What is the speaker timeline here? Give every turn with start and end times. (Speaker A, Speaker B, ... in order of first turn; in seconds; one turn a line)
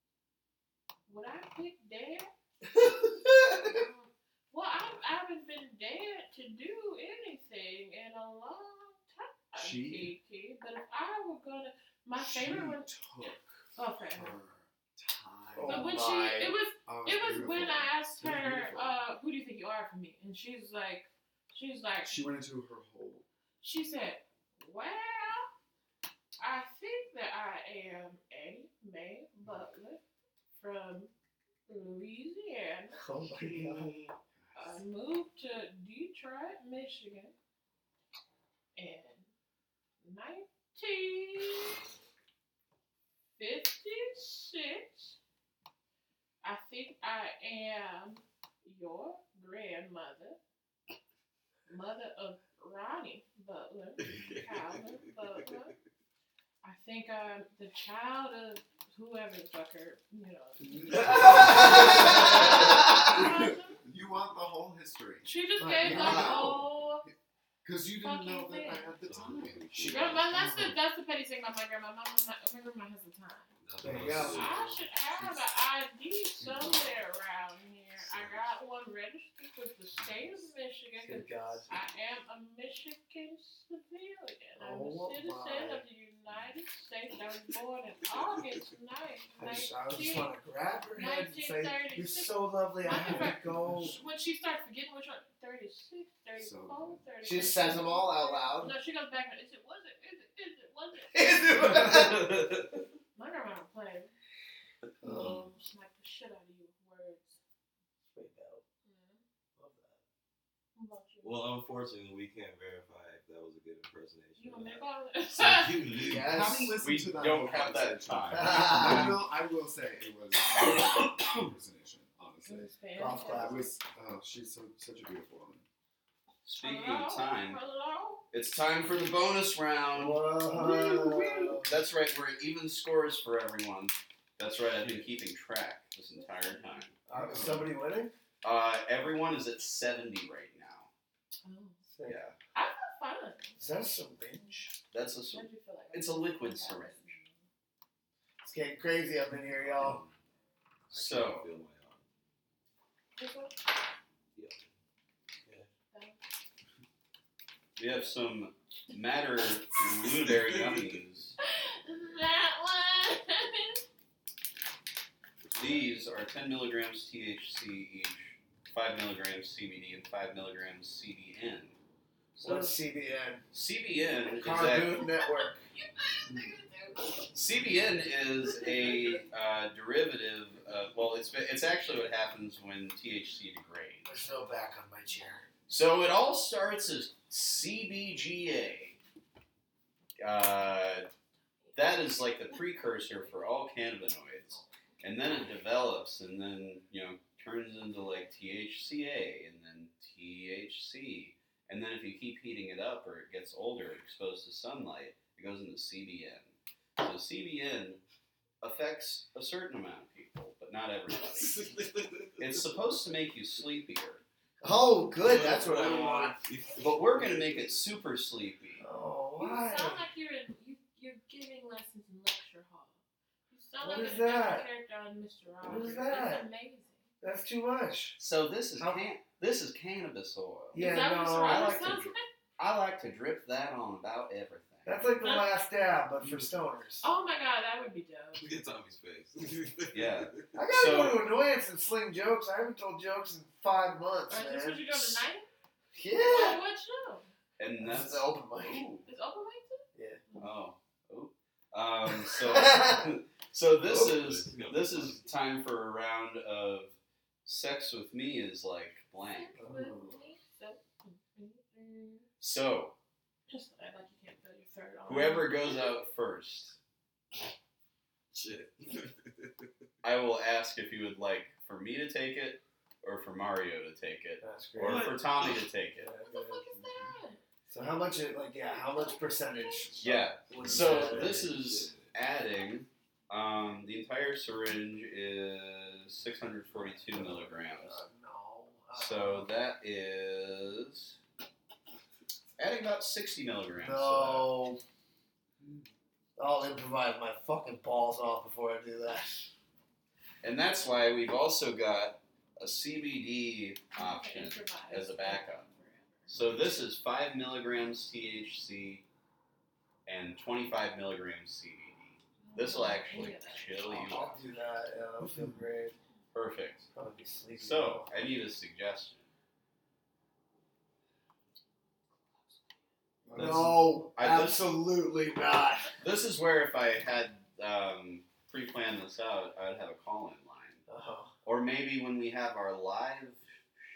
Speaker A: 1.1-2.3
Speaker B: 2.8-3.7
Speaker A: 3.5-12.9
Speaker C: 9.6-10.1
Speaker C: 12.2-16.0
Speaker A: 13.8-14.4
Speaker B: 15.6-16.6
Speaker A: 15.7-22.2
Speaker C: 16.9-19.0
Speaker C: 22.0-23.2
Speaker A: 23.6-25.5
Speaker A: 26.4-30.0
Speaker A: 30.5-31.1
Speaker A: 31.7-33.0
Speaker B: 33.0-34.0
Speaker D: 33.4-34.2
Speaker C: 34.4-34.8
Speaker A: 34.5-37.3
Speaker A: 38.8-39.3
Speaker A: 40.0-41.8
Speaker A: 43.4-45.2
Speaker A: 46.4-50.4
Speaker A: 51.7-55.7
Speaker D: 54.0-55.7
Speaker A: 56.6-63.8
Speaker C: 60.6-66.9
Speaker B: 61.1-63.1
Speaker A: 65.2-67.0
Speaker B: 65.6-66.6
Speaker C: 67.6-69.8
Speaker A: 68.0-90.3
Speaker D: 69.0-70.3
Speaker B: 69.8-70.2
Speaker C: 70.3-70.8
Speaker D: 73.6-74.6
Speaker B: 73.8-74.9
Speaker C: 73.8-74.3
Speaker D: 76.4-77.0
Speaker D: 78.0-78.3
Speaker C: 79.9-80.4
Speaker B: 81.0-81.7
Speaker B: 84.6-85.8
Speaker D: 88.1-88.6
Speaker B: 89.4-94.0
Speaker A: 91.0-101.9
Speaker C: 93.0-93.3
Speaker C: 96.4-97.1
Speaker B: 97.2-98.8
Speaker B: 101.1-102.3
Speaker D: 101.6-102.8
Speaker A: 103.2-104.1
Speaker B: 105.0-105.5
Speaker A: 105.0-107.4
Speaker B: 108.1-108.6
Speaker A: 108.8-109.2
Speaker B: 109.6-110.0
Speaker A: 110.8-111.4
Speaker D: 111.2-116.3
Speaker A: 114.4-115.9
Speaker B: 116.0-116.8
Speaker C: 116.0-122.7
Speaker E: 116.8-119.2
Speaker B: 118.3-119.1
Speaker E: 120.6-121.1
Speaker A: 122.4-123.6
Speaker B: 123.0-123.6
Speaker C: 123.3-125.7
Speaker E: 126.5-127.6
Speaker A: 126.6-128.2
Speaker E: 128.3-137.0
Speaker B: 129.9-131.7
Speaker A: 136.2-136.9
Speaker B: 137.1-138.1
Speaker E: 138.4-140.9
Speaker A: 141.4-141.8
Speaker B: 141.9-142.2
Speaker E: 142.1-142.4
Speaker A: 142.6-143.6
Speaker B: 143.6-144.7
Speaker E: 144.9-147.2
Speaker A: 145.3-147.5
Speaker B: 148.4-150.0
Speaker D: 149.5-150.2
Speaker E: 150.9-151.5
Speaker D: 150.9-152.0
Speaker A: 153.2-153.6
Speaker D: 154.3-154.7
Speaker A: 155.9-156.2
Speaker E: 157.8-161.3
Speaker D: 160.0-161.0
Speaker A: 161.4-163.8
Speaker E: 165.6-171.8
Speaker E: 172.3-172.8
Speaker B: 172.4-173.4
Speaker E: 173.5-175.1
Speaker B: 174.4-175.7
Speaker A: 175.1-177.3
Speaker E: 177.3-184.1
Speaker A: 178.5-179.2
Speaker B: 184.1-185.5
Speaker E: 185.7-189.0
Speaker E: 190.2-191.1
Speaker A: 191.7-193.4
Speaker E: 191.8-208.0
Speaker E: 208.6-211.7
Speaker D: 211.1-213.0
Speaker E: 212.4-214.2
Speaker B: 214.6-216.4
Speaker D: 215.2-217.8
Speaker E: 216.8-218.8
Speaker B: 218.8-220.1
Speaker A: 219.4-223.0
Speaker A: 223.5-227.0
Speaker B: 223.8-224.7
Speaker B: 225.6-226.5
Speaker E: 225.7-226.0
Speaker B: 227.2-228.2
Speaker E: 228.2-230.8
Speaker B: 230.7-232.1
Speaker A: 230.8-232.2
Speaker E: 231.4-235.0
Speaker B: 234.8-237.1
Speaker A: 235.2-235.5
Speaker D: 236.2-236.5
Speaker A: 237.0-238.5
Speaker D: 238.3-240.4
Speaker E: 239.9-241.3
Speaker B: 240.5-245.2
Speaker A: 244.3-245.5
Speaker B: 245.9-246.6
Speaker A: 246.2-247.3
Speaker E: 247.6-249.1
Speaker B: 247.8-248.8
Speaker A: 249.0-250.5
Speaker B: 249.9-250.2
Speaker E: 250.4-259.6
Speaker B: 252.2-253.1
Speaker D: 253.8-255.2
Speaker A: 259.2-262.2
Speaker B: 259.6-259.9
Speaker C: 259.6-260.1
Speaker E: 262.4-262.9
Speaker A: 263.5-265.9
Speaker E: 265.1-266.8
Speaker D: 268.3-269.7
Speaker E: 270.0-276.1
Speaker B: 274.4-275.2
Speaker D: 274.8-275.7
Speaker B: 275.9-276.6
Speaker A: 276.2-277.4
Speaker C: 276.7-277.2
Speaker B: 277.7-281.5
Speaker A: 278.9-280.2
Speaker E: 280.0-288.0
Speaker D: 280.5-282.1
Speaker B: 287.1-289.5
Speaker E: 288.9-291.2
Speaker E: 292.6-294.5
Speaker B: 293.8-294.8
Speaker B: 296.4-299.5
Speaker E: 300.4-305.7
Speaker A: 303.9-306.3
Speaker E: 306.3-309.0
Speaker E: 310.1-314.5
Speaker A: 312.4-314.2
Speaker B: 313.9-315.9
Speaker E: 316.3-316.9
Speaker B: 316.9-318.0
Speaker E: 317.6-319.3
Speaker C: 323.3-324.0
Speaker B: 323.3-325.9
Speaker E: 323.4-323.6
Speaker E: 324.2-324.7
Speaker E: 326.0-330.8
Speaker B: 330.9-331.3
Speaker E: 331.4-333.6